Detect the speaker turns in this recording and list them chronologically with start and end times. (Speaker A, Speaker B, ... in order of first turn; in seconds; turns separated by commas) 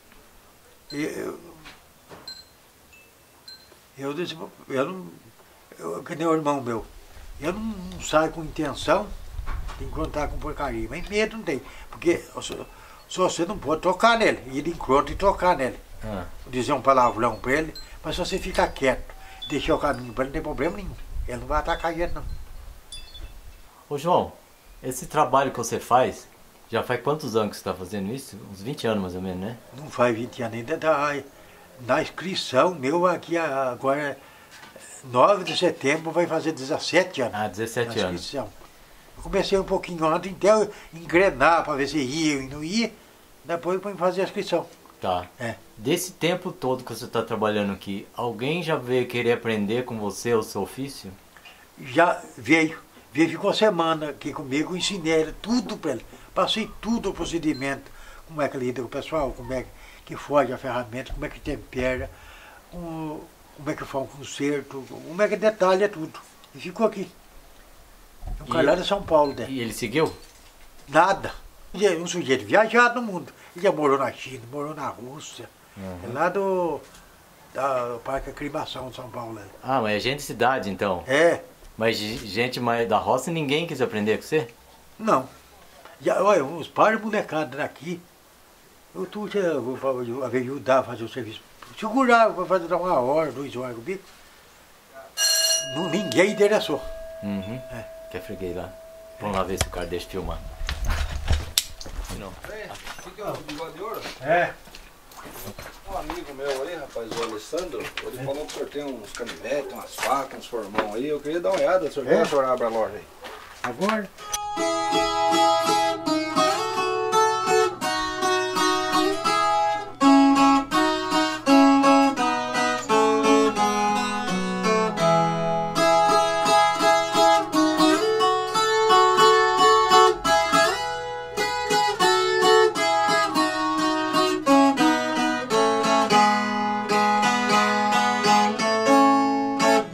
Speaker A: 0.9-1.6, Speaker A: 4.0-6.9, Speaker A: 7.4-9.1, Speaker A: 9.8-15.8, Speaker B: 16.0-16.3, Speaker A: 16.4-22.3, Speaker B: 23.9-29.6, Speaker A: 29.7-31.2, Speaker A: 31.8-34.2, Speaker A: 35.0-38.5, Speaker B: 37.3-38.2, Speaker A: 39.2-44.7, Speaker B: 45.0-51.2, Speaker A: 51.8-62.1, Speaker A: 62.7-67.1, Speaker A: 68.4-69.5, Speaker B: 68.5-68.8, Speaker B: 69.4-70.2, Speaker A: 70.9-76.8, Speaker B: 75.8-76.2, Speaker A: 77.5-79.5, Speaker B: 79.6-81.1, Speaker A: 81.0-81.4, Speaker B: 81.8-84.5, Speaker A: 85.0-85.3, Speaker A: 86.0-88.0, Speaker A: 88.9-94.0, Speaker A: 95.6-96.9, Speaker B: 97.2-100.4, Speaker B: 102.1-102.4, Speaker C: 102.4-104.1, Speaker A: 104.2-104.5, Speaker C: 105.8-113.1, Speaker A: 112.0-112.3, Speaker A: 113.6-114.1